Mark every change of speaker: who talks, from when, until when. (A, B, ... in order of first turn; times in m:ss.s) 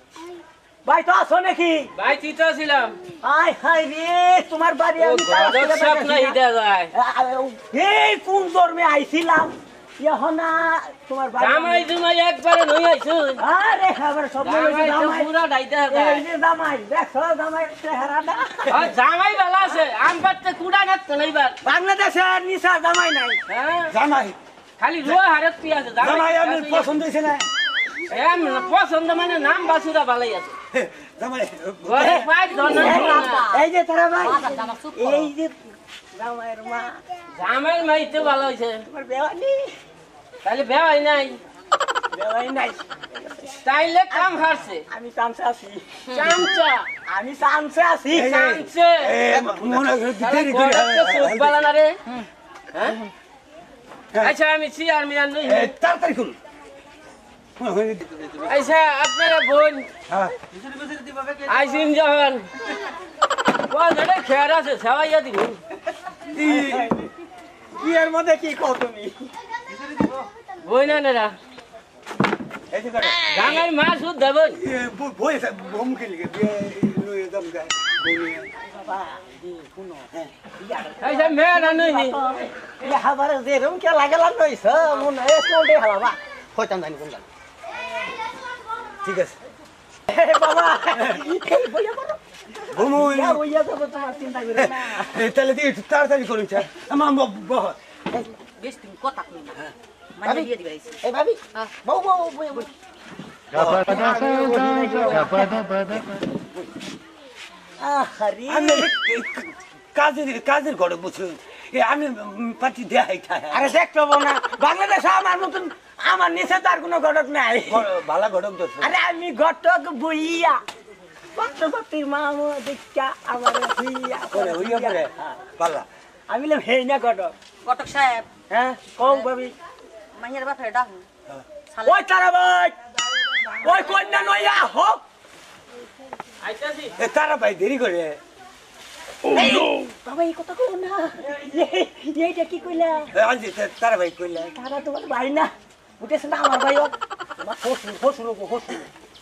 0:00.8-0:01.9 A
0:02.0-0:03.0 B
0:03.2-0:06.4 A
0:05.0-0:06.9 B
0:06.9-0:11.8 A
0:11.4-0:13.4 B
0:13.4-0:15.3 A
0:14.4-0:16.2 B
0:15.9-0:18.7 A
0:18.7-0:21.6 B
0:21.6-0:23.4 A
0:23.5-0:23.9 B
0:23.9-0:24.4 C
0:24.8-0:26.9 B
0:26.0-0:27.5 C
0:28.1-0:30.5 B
0:30.7-0:32.3 C
0:31.8-0:33.4 B
0:32.5-0:33.6 D
0:32.7-0:37.0 A
0:34.2-0:35.3 D
0:37.4-0:38.8 B
0:38.9-0:39.8 A
0:40.4-0:41.4 B
0:42.1-0:43.6 A
0:43.6-0:44.8 B
0:44.9-0:46.0 A
0:46.1-0:46.4 D
0:46.1-0:46.9 B
0:47.1-0:48.3 A
0:48.1-0:51.6 C
0:48.2-0:49.2 B
0:50.2-0:52.0 B
0:54.2-0:55.7 B
0:55.4-0:56.4 C
0:57.6-0:58.6 C
0:58.4-0:59.9 B
1:00.1-1:00.3 C
1:00.6-1:01.6 A
1:01.4-1:02.5 B
1:03.7-1:05.6 B
1:06.3-1:06.9 C
1:06.4-1:07.0 A
1:07.8-1:09.3 A
1:10.6-1:11.4 B
1:12.7-1:13.6 C
1:13.3-1:14.6 B
1:14.5-1:18.5 C
1:18.6-1:20.0 A
1:20.6-1:27.2 A
1:21.0-1:22.2 B
1:29.0-1:29.4 C
1:30.1-1:35.2 A
1:32.7-1:33.4 C
1:34.6-1:37.8 C
1:38.6-1:39.6 D
1:40.2-1:40.9 D
1:41.0-1:42.7 A
1:43.5-1:44.1 C
1:43.8-1:46.0 A
1:47.8-1:48.9 A
1:48.5-1:53.7 C
1:53.5-1:57.8 A
1:57.7-1:58.9 C
1:58.8-2:00.6 A
2:01.3-2:05.4 A
2:04.3-2:05.9 C
2:06.3-2:07.3 A
2:07.6-2:08.3 D
2:08.5-2:09.5 A
2:09.0-2:09.3 D
2:10.2-2:11.0 D
2:11.7-2:12.1 D
2:11.8-2:12.8 A
2:13.6-2:15.0 A
2:16.4-2:16.9 B
2:17.0-2:18.2 C
2:19.3-2:23.1 A
2:23.1-2:24.5 C
2:24.5-2:28.9 A